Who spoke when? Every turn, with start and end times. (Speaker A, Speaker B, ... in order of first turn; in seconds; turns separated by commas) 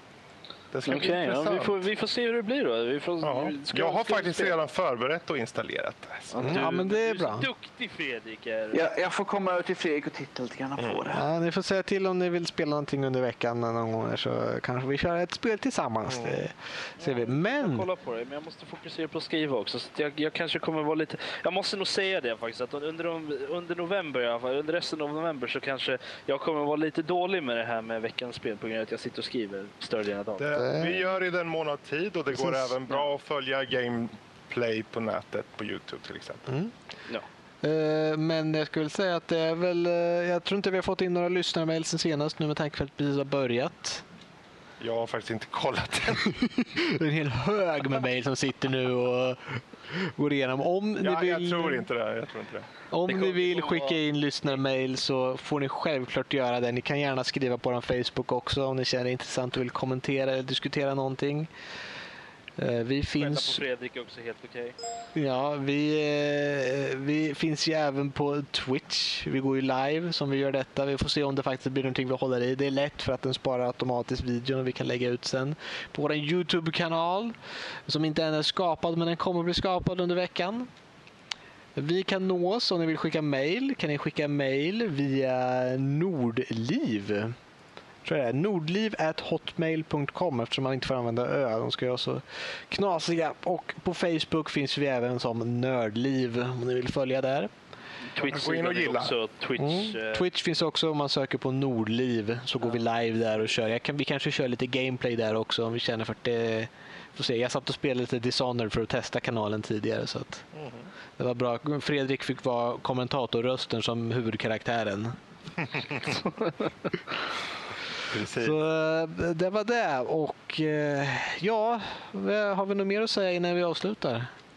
Speaker A: 0.7-1.8, Speaker B: 0.8-4.5, Speaker A: 3.2-6.7, Speaker B: 6.3-8.8, Speaker C: 6.4-7.5, Speaker D: 8.7-11.2, Speaker A: 10.8-11.0, Speaker C: 11.1-17.9, Speaker A: 16.1-16.4, Speaker B: 17.0-30.6, Speaker A: 30.4-36.5, Speaker C: 30.6-31.1, Speaker C: 32.3-32.7, Speaker C: 36.5-36.7, Speaker C: 37.6-44.0, Speaker A: 44.8-46.4, Speaker C: 46.4-51.9, Speaker A: 51.0-52.7, Speaker C: 52.9-61.5, Speaker B: 53.1-54.0, Speaker C: 62.6-63.6, Speaker B: 63.2-64.8, Speaker C: 65.1-77.3, Speaker C: 77.9-80.7, Speaker C: 81.7-87.3, Speaker C: 88.0-97.5, Speaker B: 98.1-100.2, Speaker A: 98.2-99.1, Speaker C: 99.6-110.4, Speaker A: 110.5-110.9, Speaker C: 111.2-115.2, Speaker A: 115.7-116.1, Speaker A: 118.1-118.6, Speaker C: 118.3-124.3